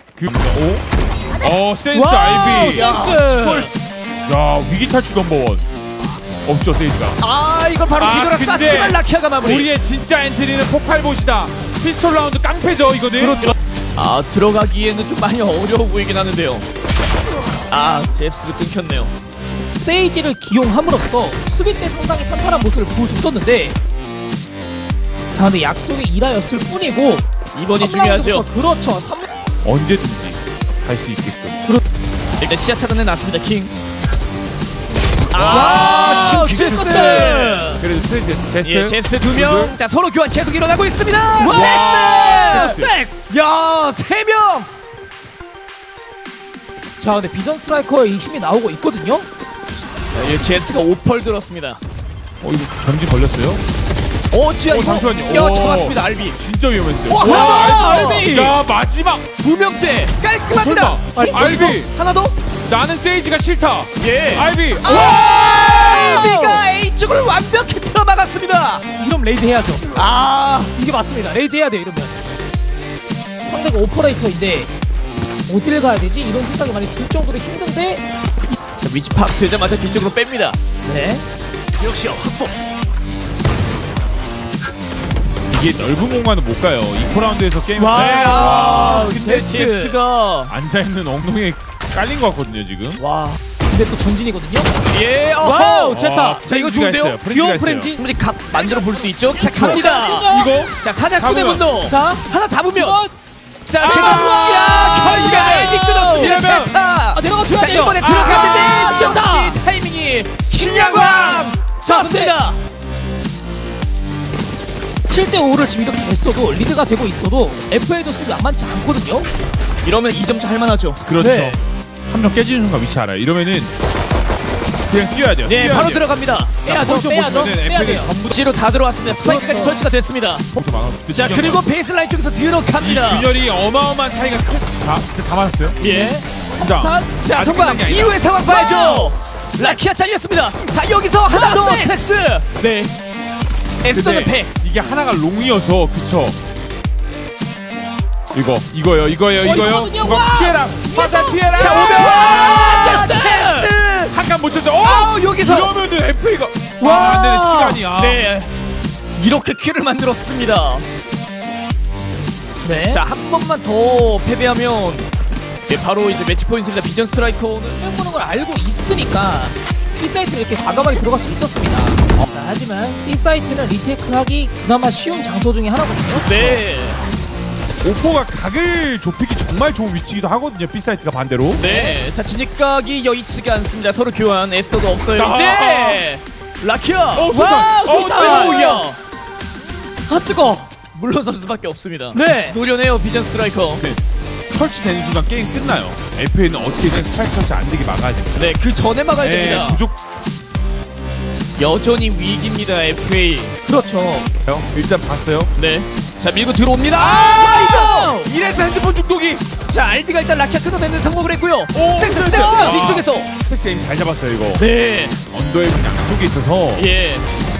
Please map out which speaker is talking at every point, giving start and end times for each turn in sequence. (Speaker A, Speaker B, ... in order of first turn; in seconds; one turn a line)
Speaker A: 0.2-0.8
Speaker A: 1.4-3.6
Speaker B: 1.9-3.7
Speaker C: 2.7-3.7
Speaker A: 4.2-5.6
Speaker A: 6.4-7.2
Speaker C: 7.2-9.7
Speaker A: 7.9-13.5
Speaker C: 13.2-16.6
Speaker C: 17.7-19.1
Speaker B: 19.7-23.8
Speaker B: 25.3-29.3
Speaker C: 27.5-28.5
Speaker A: 29.6-31.6
Speaker C: 32.4-33.7
Speaker A: 35.3-39.8
Speaker C: 35.3-37.8
Speaker B: 35.5-37.8
Speaker C: 38.6-44.7
Speaker B: 41.4-43.2
Speaker A: 41.4-42.9
Speaker B: 47.0-49.3
Speaker C: 50.1-51.8
Speaker A: 52.4-53.6
Speaker C: 54.3-56.4
Speaker A: 54.7-59.3
Speaker C: 57.1-58.3
Speaker B: 57.2-58.6
Speaker C: 59.4-62.4
Speaker A: 60.5-61.9
Speaker B: 61.1-61.8
Speaker A: 62.6-65.0
Speaker C: 64.0-68.8
Speaker B: 64.8-66.6
Speaker B: 69.0-69.9
Speaker C: 69.9-70.7
Speaker B: 70.7-72.1
Speaker B: 73.5-74.7
Speaker B: 75.5-78.5
Speaker C: 78.8-80.6
Speaker B: 80.8-81.2
Speaker A: 85.5-89.1
Speaker B: 87.8-90.0
Speaker C: 87.9-90.5
Speaker A: 90.5-93.0
Speaker C: 93.0-93.4
Speaker B: 93.7-94.7
Speaker C: 94.9-97.2
Speaker B: 95.4-96.4
Speaker A: 95.9-97.9
Speaker B: 97.2-98.0
Speaker C: 98.0-103.0
Speaker B: 99.4-100.6
Speaker A: 99.5-101.7
Speaker B: 101.9-103.1
Speaker C: 103.7-112.6
Speaker A: 103.8-104.7
Speaker B: 103.8-106.5
Speaker A: 106.2-106.7
Speaker B: 107.1-109.6
Speaker A: 110.6-111.2
Speaker B: 110.9-112.3
Speaker B: 115.1-119.3
Speaker C: 119.8-121.0
Speaker A: 121.0-123.7
Speaker B: 121.2-121.6
Speaker A: 124.9-126.1
Speaker C: 125.4-126.7
Speaker A: 126.6-128.4
Speaker B: 126.6-128.1
Speaker C: 128.3-130.5
Speaker B: 129.1-129.8
Speaker A: 130.5-131.6
Speaker C: 131.1-133.3
Speaker A: 132.8-135.8
Speaker C: 135.8-136.2
Speaker B: 135.8-137.1
Speaker A: 136.6-138.3
Speaker C: 137.2-142.9
Speaker B: 138.4-139.7
Speaker B: 141.3-141.9
Speaker C: 143.8-144.5
Speaker A: 143.9-146.4
Speaker A: 148.3-152.6
Speaker B: 149.4-153.7
Speaker C: 151.5-154.1
Speaker A: 154.1-158.2
Speaker C: 154.8-155.7
Speaker B: 156.8-157.8
Speaker C: 157.9-158.5
Speaker C: 159.2-160.8
Speaker B: 162.6-163.0
Speaker C: 162.9-165.1
Speaker C: 165.7-167.8
Speaker B: 167.8-176.6
Speaker C: 176.1-177.0
Speaker A: 177.8-181.6
Speaker C: 181.6-187.3
Speaker B: 181.6-182.0
Speaker A: 185.1-186.0
Speaker A: 187.1-188.8
Speaker B: 187.3-188.8
Speaker C: 187.9-189.0
Speaker B: 190.1-190.7
Speaker C: 190.9-193.8
Speaker B: 192.1-192.6
Speaker A: 193.8-198.5
Speaker C: 198.3-199.8
Speaker A: 199.2-199.9
Speaker C: 201.6-203.6
Speaker B: 203.6-204.3
Speaker A: 204.4-205.5
Speaker C: 205.6-208.1
Speaker A: 206.9-209.5
Speaker B: 207.2-208.3
Speaker C: 209.7-213.3
Speaker A: 211.7-214.6
Speaker B: 212.2-212.9
Speaker C: 214.6-215.2
Speaker A: 215.3-216.9
Speaker C: 216.8-217.2